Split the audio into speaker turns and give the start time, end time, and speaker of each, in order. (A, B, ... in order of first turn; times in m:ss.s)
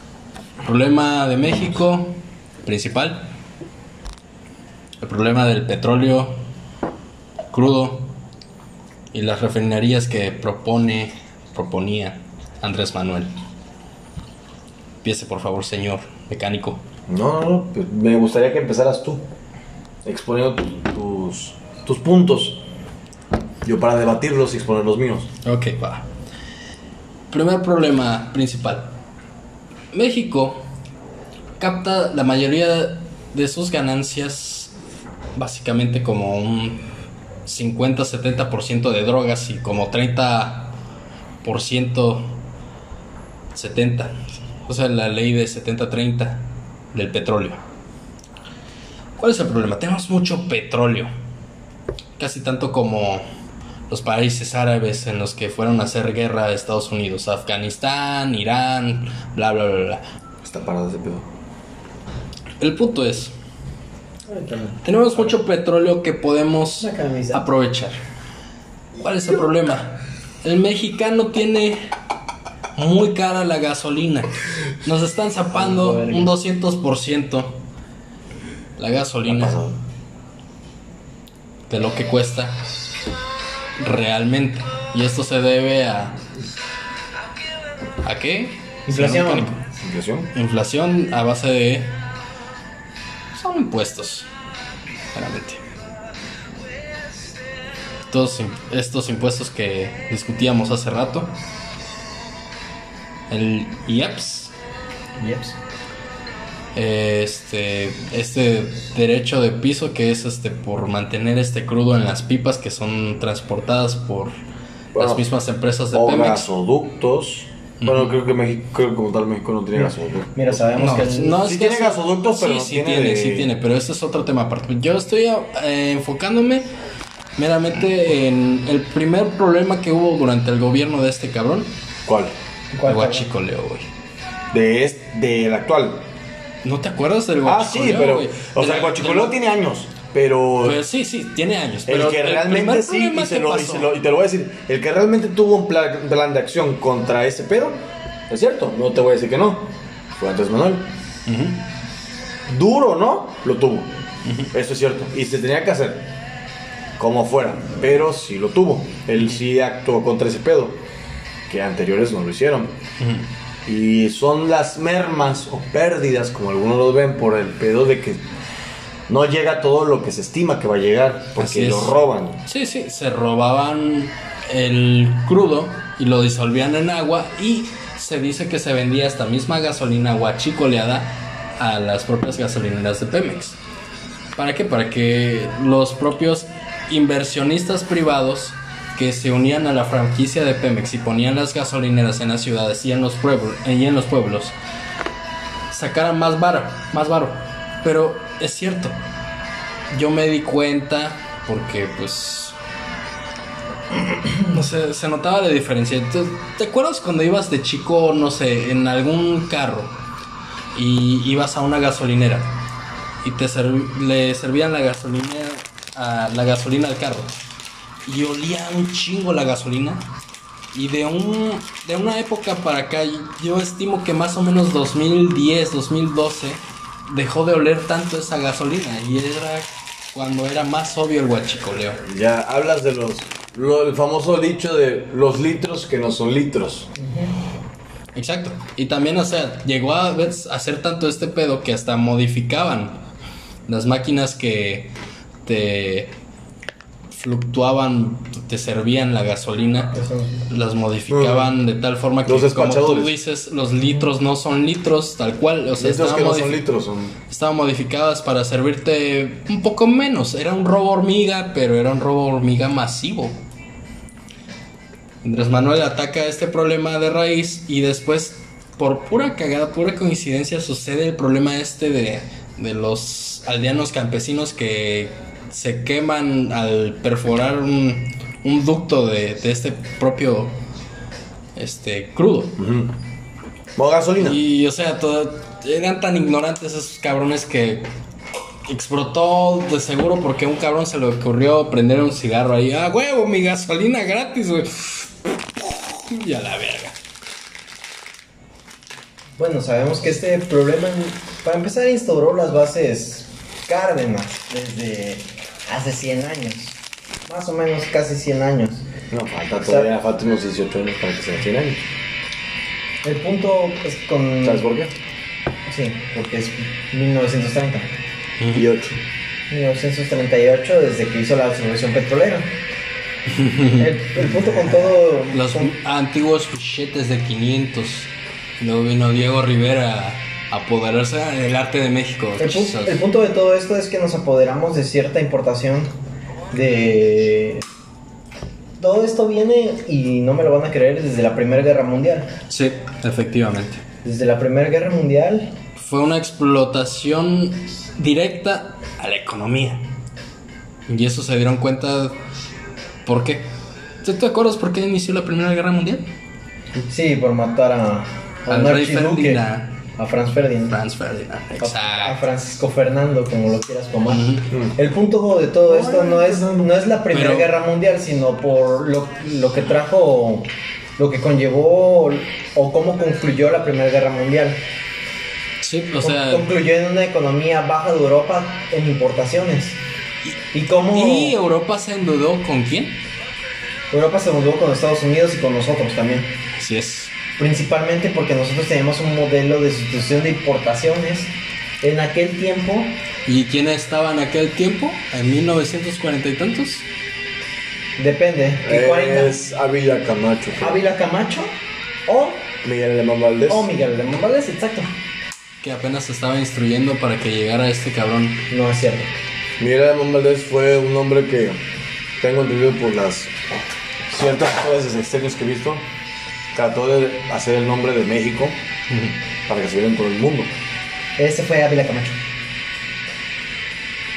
0:00.6-0:03.3 A
0:05.0-0:06.4 A
0:07.5-0:08.1 A
0:09.1-0:13.4 A
0:15.0-0:16.8 A
0:17.1-0:19.2 B
0:20.0-0:22.6 B
0:23.6-0:25.3 B
0:25.4-0:26.1 A
0:27.3-0:28.9 A
0:29.9-0:30.6 A
0:31.6-0:34.7 A
0:35.4-0:36.8 A
0:37.5-0:40.8 A
0:41.4-0:42.4 A
0:43.5-0:47.6 A
0:49.2-0:51.1 A
0:52.2-0:53.2 A
0:53.9-1:00.0 A
1:00.4-1:01.3 B
1:02.6-1:03.3 A
1:04.3-1:05.2 C
1:04.8-1:08.0 A
1:06.8-1:07.4 C
1:09.0-1:11.9 A
1:12.8-1:17.6 A
1:15.5-1:16.3 C
1:18.8-1:19.6 A
1:19.2-1:19.8 B
1:21.7-1:22.7 A
1:23.8-1:26.2 A
1:28.0-1:29.6 A
1:28.9-1:29.5 C
1:29.8-1:30.3 B
1:30.3-1:32.0 A
1:33.3-1:34.3 A
1:35.1-1:35.6 A
1:38.1-1:41.3 A
1:43.3-1:44.5 A
1:45.2-1:45.6 C
1:46.8-1:54.4 A
1:54.9-1:55.2 B
1:54.9-1:56.5 A
1:55.9-2:00.7 B
1:57.8-1:58.2 A
2:00.4-2:01.4 C
2:00.8-2:06.7 A
2:01.3-2:03.5 B
2:07.4-2:11.7 A
2:12.1-2:12.3 B
2:12.7-2:13.3 C
2:12.8-2:13.9 A
2:14.5-2:16.1 B
2:16.6-2:19.4 A
2:17.4-2:20.8 B
2:20.6-2:23.9 A
2:21.9-2:27.8 B
2:28.3-2:30.9 B
2:31.3-2:31.6 A
2:32.5-2:33.9 B
2:34.5-2:36.1 B
2:37.0-2:40.8 B
2:41.5-2:42.7 B
2:43.0-2:43.3 A
2:43.7-2:48.2 B
2:49.1-2:52.4 B
2:51.4-3:03.6 A
3:04.4-3:14.6 A
3:15.7-3:19.0 A
3:19.9-3:22.6 A
3:24.4-3:30.0 A
3:30.7-3:32.6 A
3:33.2-3:37.4 A
3:38.0-3:40.1 A
3:40.7-3:52.0 A
3:52.0-3:56.9 B
3:57.0-3:57.3 C
3:58.2-4:03.0 A
4:03.7-4:04.9 A
4:05.4-4:06.1 A
4:07.1-4:16.6 A
4:09.9-4:10.4 C
4:11.1-4:11.5 B
4:12.2-4:13.1 B
4:15.8-4:17.1 B
4:17.3-4:23.4 A
4:25.2-4:40.6 A
4:41.6-4:42.6 A
4:42.6-4:42.9 B
4:43.8-4:44.4 B
4:44.2-4:47.9 A
4:48.7-4:57.0 A
4:59.4-5:08.9 C
5:09.1-5:11.8 B
5:09.6-5:09.9 C
5:13.0-5:14.6 C
5:14.4-5:14.9 B
5:15.7-5:17.9 C
5:18.4-5:18.7 A
5:18.5-5:19.0 B
5:19.5-5:22.5 C
5:23.3-5:33.0 A
5:23.8-5:25.7 C
5:32.4-5:35.9 C
5:36.5-5:37.6 C
5:38.8-5:42.3 C
5:42.5-5:43.8 A
5:44.0-5:45.6 C
5:45.8-5:49.9 A
5:50.9-5:52.2 A
5:53.1-5:53.5 A
5:54.0-5:56.1 A
5:56.9-5:59.4 C
5:58.5-5:59.8 A
6:00.0-6:00.8 C
6:00.7-6:02.2 A
6:01.6-6:04.2 C
6:04.1-6:04.5 A
6:04.5-6:04.8 B
6:04.8-6:14.6 C
6:05.7-6:06.7 B
6:07.1-6:07.5 A
6:15.6-6:16.5 A
6:16.0-6:19.8 C
6:20.5-6:21.4 C
6:20.9-6:23.0 A
6:23.9-6:26.3 C
6:26.6-6:27.1 A
6:27.4-6:33.0 C
6:33.3-6:36.9 A
6:38.0-6:39.3 C
6:38.6-6:40.8 B
6:40.6-6:41.6 C
6:42.1-6:42.6 C
6:42.6-6:43.7 B
6:43.5-6:44.9 C
6:45.6-6:48.5 A
6:48.5-6:49.1 C
6:49.6-6:51.6 B
6:52.2-6:53.3 B
6:54.1-6:55.9 B
6:56.5-6:58.6 B
6:58.9-6:59.2 A
6:59.5-7:00.5 B
7:01.2-7:02.2 C